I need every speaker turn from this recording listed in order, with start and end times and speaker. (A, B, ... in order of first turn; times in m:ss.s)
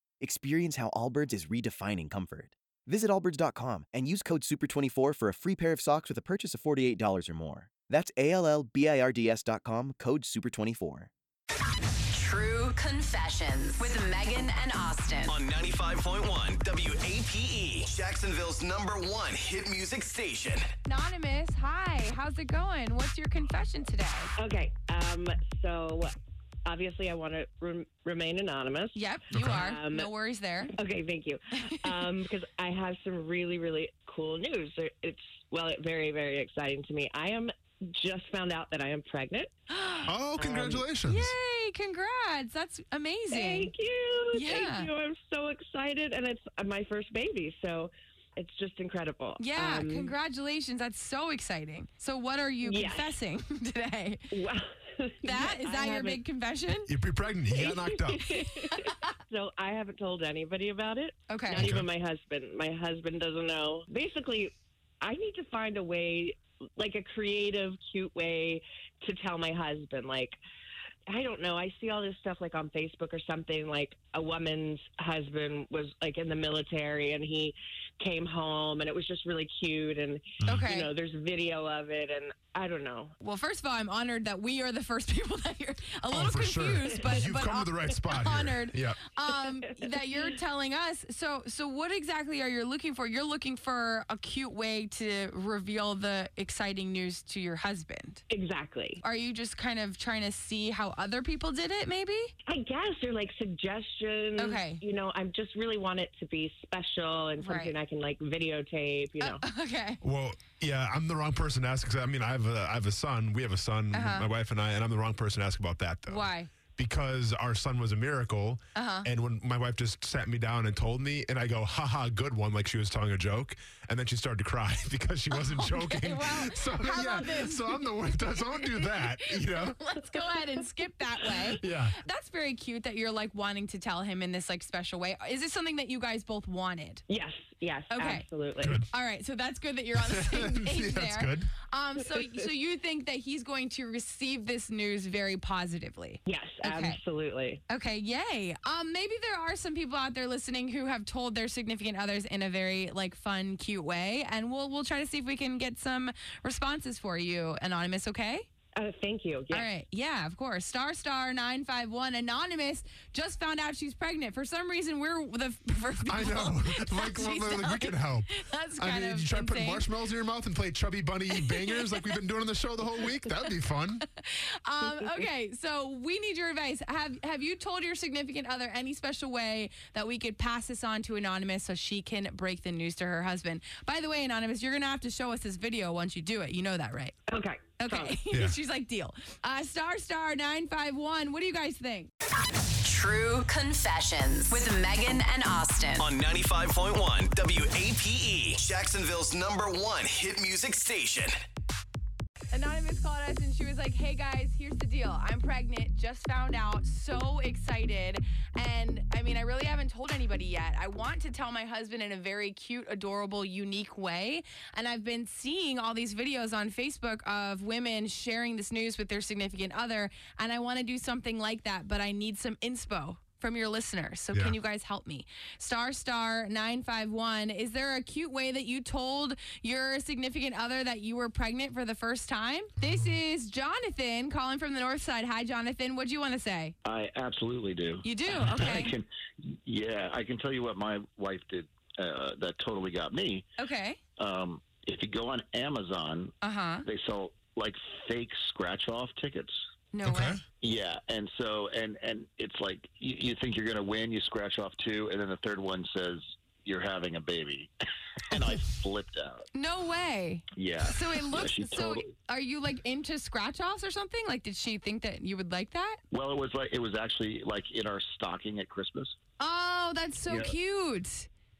0:00.2-0:11.1 A
0:12.1-0:13.7 B
0:13.7-0:15.4 C
0:15.3-0:20.7 D
0:20.8-0:24.3 C
0:24.4-0:26.1 E
0:26.6-0:30.1 E
0:29.0-0:30.7 C
0:29.3-0:29.7 F
0:30.7-0:39.5 E
0:31.7-0:32.0 C
0:39.7-0:40.2 C
0:40.0-0:41.3 F
0:40.4-0:40.8 E
0:41.0-0:43.7 C
0:43.3-0:50.1 E
0:44.3-0:44.9 C
0:49.4-0:54.4 C
0:52.6-0:53.2 E
0:54.3-0:56.2 E
0:55.2-0:56.9 C
0:56.8-0:58.3 F
0:57.5-1:10.4 E
0:58.2-0:59.1 C
1:01.3-1:01.7 C
1:01.5-1:01.9 F
1:11.1-1:23.1 E
1:20.4-1:20.7 F
1:20.4-1:20.9 C
1:23.2-1:38.2 C
1:26.1-1:29.0 F
1:29.3-1:30.3 E
1:38.3-1:39.0 E
1:39.0-1:42.3 C
1:42.5-1:49.4 E
1:44.4-1:44.8 C
1:47.4-1:47.8 C
1:49.2-1:50.0 C
1:50.0-2:10.1 F
1:53.9-1:54.3 C
1:56.1-1:56.5 C
1:58.8-1:59.1 C
2:05.3-2:17.0 C
2:11.6-2:12.0 F
2:17.1-2:18.8 E
2:17.9-2:18.3 C
2:18.6-2:18.8 F
2:18.8-2:27.0 C
2:20.0-2:21.5 F
2:26.2-2:27.6 E
2:27.7-2:38.5 C
2:38.8-2:39.7 E
2:39.5-2:49.9 C
2:46.1-2:54.0 F
2:51.4-2:52.1 C
2:53.0-2:53.5 C
2:54.1-3:07.2 C
2:54.8-2:55.2 E
3:07.3-3:08.2 E
3:07.8-3:12.1 C
3:08.3-3:08.6 F
3:12.9-3:14.6 B
3:14.5-3:16.1 C
3:16.0-3:21.4 D
3:22.5-3:56.8 C
3:56.8-4:03.5 G
3:58.0-3:58.9 C
4:03.6-4:04.0 C
4:04.2-4:09.6 G
4:06.4-4:06.9 C
4:09.9-4:10.4 C
4:10.0-4:10.4 F
4:10.6-4:17.7 G
4:18.3-4:19.5 G
4:19.5-4:26.0 C
4:20.5-4:22.1 G
4:26.1-4:29.2 G
4:29.4-4:31.3 C
4:30.3-4:30.6 G